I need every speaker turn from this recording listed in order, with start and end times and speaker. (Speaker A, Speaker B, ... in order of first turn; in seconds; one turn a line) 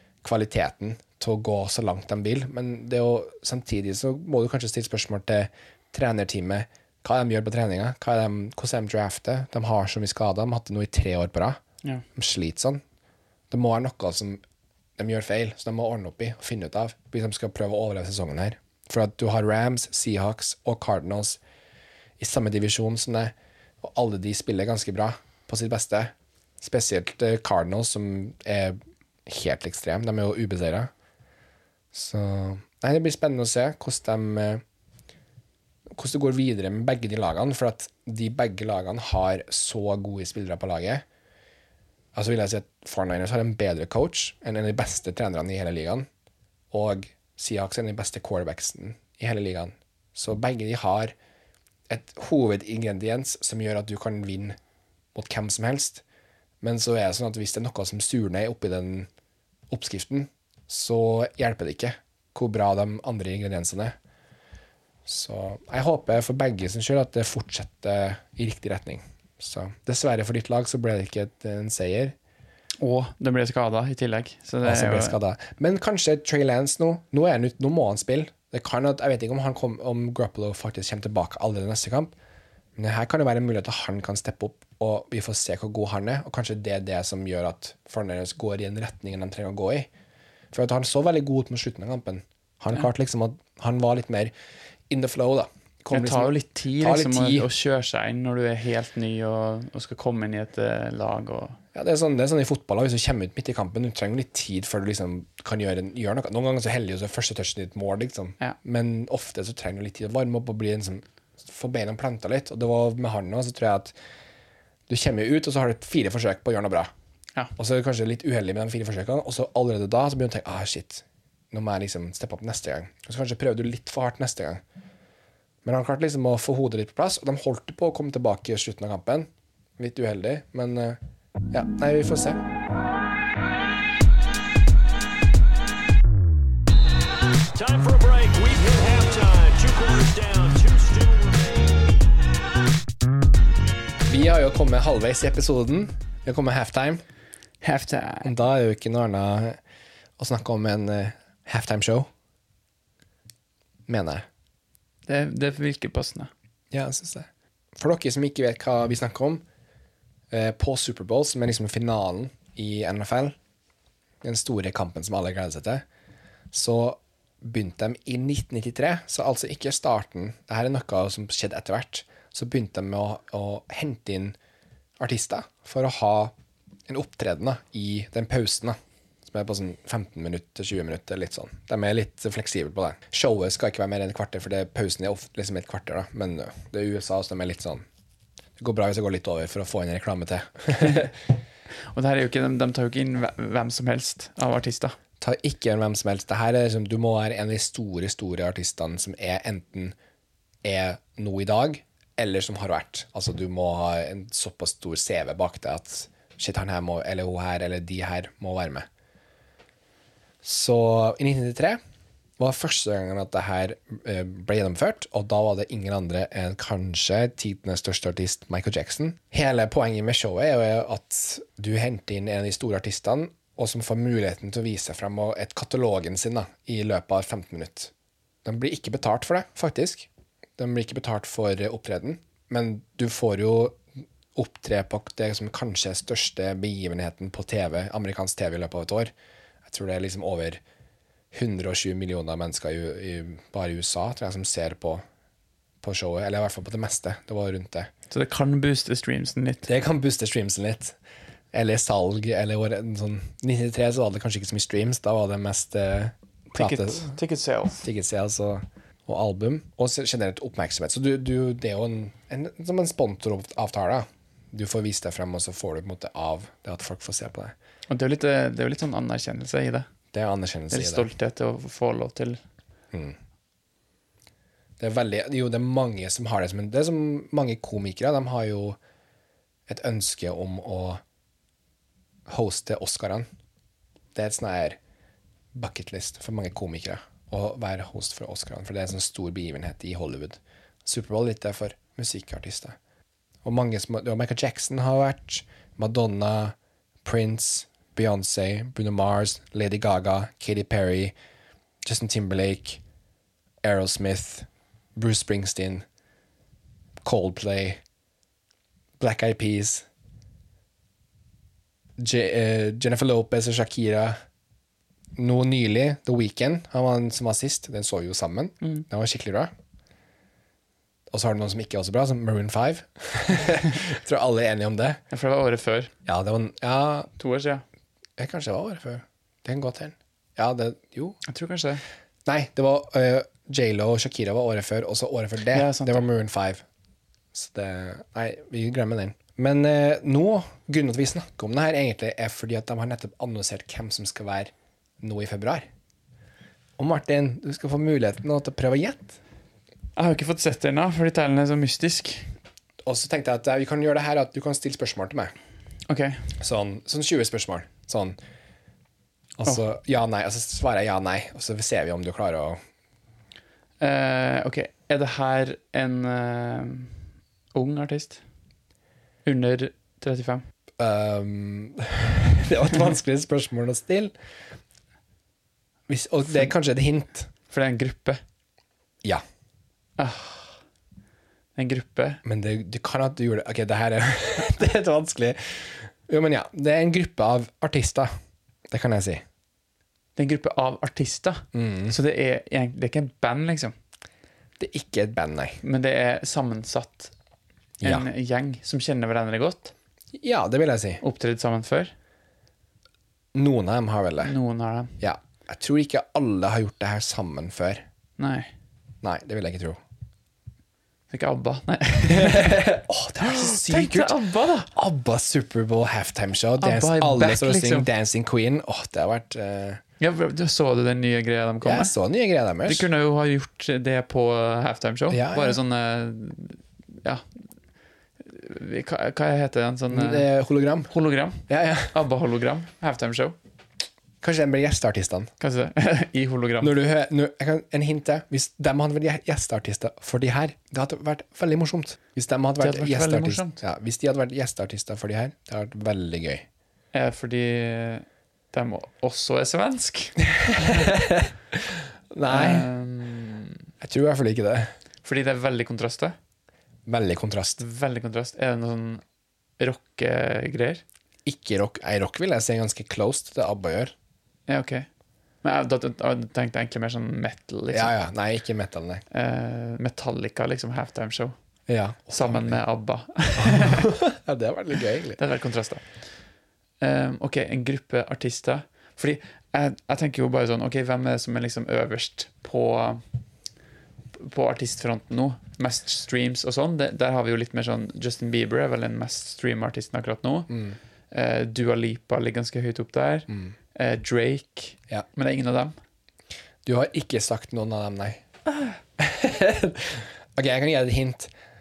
Speaker A: 0.2-11.6
Speaker A: 12.1-12.8
Speaker A: 13.5-14.4
Speaker A: 15.0-21.4
Speaker A: 22.2-30.9
Speaker A: 31.9-34.6
Speaker A: 35.9-41.0
Speaker A: 42.1-46.1
Speaker A: 46.7-51.1
Speaker A: 51.9-54.5
Speaker A: 55.1-56.0
Speaker A: 56.6-59.1
Speaker A: 59.7-63.9
Speaker A: 65.0-72.1
Speaker B: 72.8-75.2
Speaker A: 74.6-82.1
Speaker A: 82.8-89.9
Speaker A: 90.5-94.3
Speaker A: 94.9-97.5
Speaker B: 95.9-101.6
Speaker A: 101.7-113.9
Speaker A: 114.9-116.9
Speaker A: 117.5-124.6
Speaker A: 125.6-129.3
Speaker A: 129.8-131.0
Speaker A: 131.5-132.4
Speaker C: 137.5-141.9
Speaker A: 144.1-147.0
Speaker B: 147.6-148.3
Speaker A: 148.2-149.6
Speaker A: 150.2-152.1
Speaker A: 153.9-154.2
Speaker B: 155.1-156.3
Speaker A: 156.7-159.4
Speaker A: 160.3-163.3
Speaker A: 164.2-165.8
Speaker A: 166.5-174.4
Speaker A: 175.0-176.3
Speaker A: 176.9-187.8
Speaker A: 188.6-191.1
Speaker B: 191.9-194.9
Speaker A: 195.2-199.9
Speaker A: 200.6-208.8
Speaker A: 210.4-211.8
Speaker A: 212.4-227.9
Speaker A: 228.4-233.8
Speaker A: 234.3-239.1
Speaker A: 239.7-240.6
Speaker A: 241.3-245.0
Speaker A: 245.8-247.9
Speaker B: 248.1-249.7
Speaker A: 249.7-250.9
Speaker A: 251.5-257.1
Speaker B: 256.6-257.9
Speaker A: 257.8-267.5
Speaker B: 267.9-269.9
Speaker A: 270.1-271.1
Speaker B: 270.7-272.4
Speaker A: 274.8-278.8
Speaker A: 279.7-281.0
Speaker A: 282.3-283.3
Speaker A: 284.1-284.8
Speaker A: 285.5-292.8
Speaker A: 293.4-301.1
Speaker A: 301.8-302.8
Speaker A: 303.6-305.8
Speaker A: 307.0-307.8
Speaker A: 309.0-309.8
Speaker A: 312.0-314.2
Speaker A: 315.2-319.5
Speaker A: 321.1-325.0
Speaker B: 325.1-325.9
Speaker A: 326.1-327.1
Speaker B: 327.2-327.6
Speaker A: 328.2-331.2
Speaker B: 331.2-331.8
Speaker A: 332.2-336.6
Speaker B: 335.5-336.0
Speaker A: 337.3-345.7
Speaker A: 346.8-349.2
Speaker B: 349.9-352.3
Speaker A: 352.9-355.3
Speaker B: 355.9-356.2
Speaker A: 356.4-358.2
Speaker A: 359.4-362.6
Speaker B: 363.8-368.2
Speaker B: 369.2-370.4
Speaker A: 370.8-374.1
Speaker A: 375.9-377.3
Speaker B: 377.5-378.2
Speaker B: 380.0-380.6
Speaker B: 381.5-382.2
Speaker A: 382.2-388.1
Speaker A: 388.7-389.2
Speaker B: 390.1-393.7
Speaker A: 391.5-391.9
Speaker A: 394.6-395.6
Speaker B: 395.6-397.1
Speaker A: 397.8-398.1
Speaker B: 397.8-399.7
Speaker A: 400.1-401.0
Speaker B: 401.0-401.9
Speaker A: 403.3-404.3
Speaker B: 404.2-404.9
Speaker A: 405.0-407.8
Speaker B: 408.2-408.5
Speaker A: 409.0-409.8
Speaker B: 411.1-412.7
Speaker A: 412.1-419.8
Speaker B: 413.2-414.7
Speaker B: 416.6-417.9
Speaker B: 420.0-421.9
Speaker A: 421.6-422.9
Speaker B: 422.6-427.2
Speaker A: 425.1-425.6
Speaker B: 428.2-430.3
Speaker A: 429.9-430.9
Speaker B: 430.9-433.4
Speaker A: 431.5-431.9
Speaker A: 434.2-435.3
Speaker B: 435.4-436.7
Speaker A: 436.6-446.4
Speaker B: 442.6-443.6
Speaker B: 446.9-450.9
Speaker A: 450.4-452.7
Speaker B: 452.3-453.6
Speaker A: 453.8-454.7
Speaker B: 455.0-456.1
Speaker A: 456.9-457.6
Speaker B: 457.6-459.0
Speaker B: 459.6-460.8
Speaker A: 461.2-463.9
Speaker B: 464.5-464.9
Speaker B: 465.4-467.9
Speaker A: 467.7-469.0
Speaker B: 469.1-471.3
Speaker A: 471.7-472.6
Speaker B: 472.1-473.9
Speaker A: 473.4-475.2
Speaker B: 475.2-475.9
Speaker B: 476.8-483.0
Speaker B: 484.1-490.5
Speaker A: 490.5-490.8
Speaker B: 491.1-495.7
Speaker A: 496.6-498.2
Speaker A: 499.0-501.3